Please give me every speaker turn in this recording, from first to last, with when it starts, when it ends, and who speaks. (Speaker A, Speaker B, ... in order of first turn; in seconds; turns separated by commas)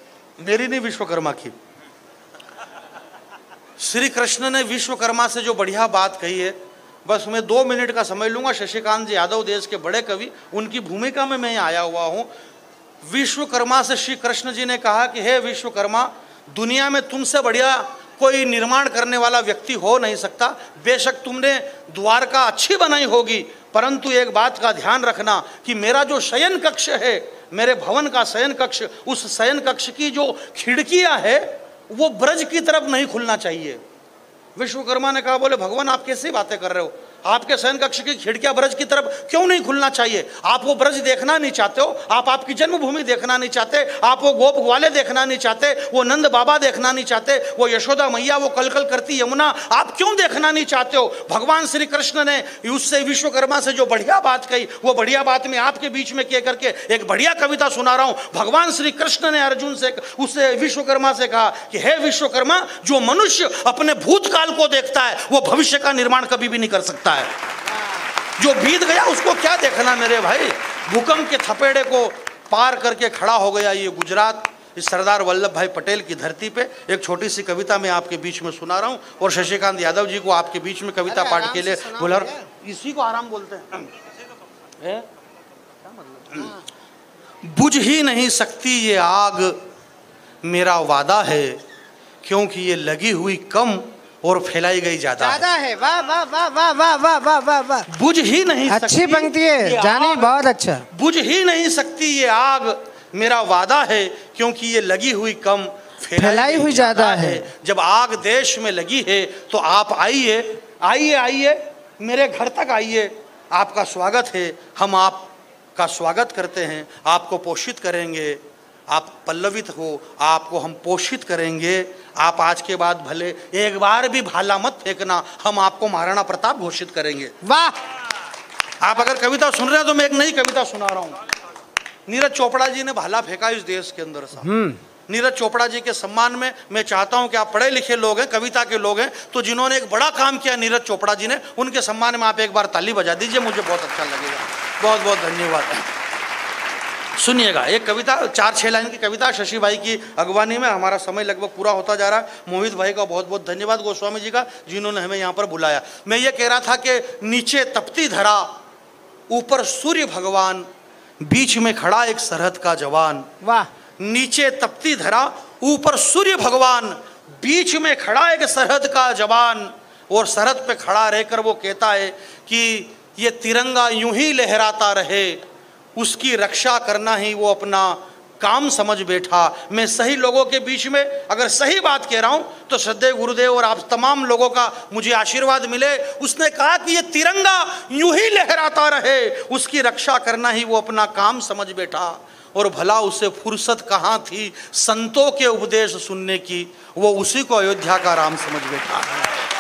Speaker A: 0.4-1.5, Speaker A: 3.8-12.3, Speaker A: 13.0-33.8, Speaker A: 34.6-67.3, Speaker A: 68.4-83.9, Speaker B: 81.0-82.5, Speaker A: 84.8-85.1, Speaker A: 85.9-86.6, Speaker A: 87.4-89.6, Speaker A: 90.4-91.6, Speaker A: 92.2-95.5, Speaker B: 95.2-97.9, Speaker A: 97.9-100.3, Speaker B: 98.7-100.9, Speaker A: 100.9-127.4, Speaker B: 106.2-107.5, Speaker B: 127.4-127.8, Speaker A: 128.8-131.2, Speaker A: 132.1-145.9, Speaker B: 134.4-134.8, Speaker A: 147.2-158.5, Speaker A: 159.3-160.7, Speaker A: 161.2-163.3, Speaker B: 163.4-163.7, Speaker A: 164.0-175.4, Speaker A: 176.0-199.4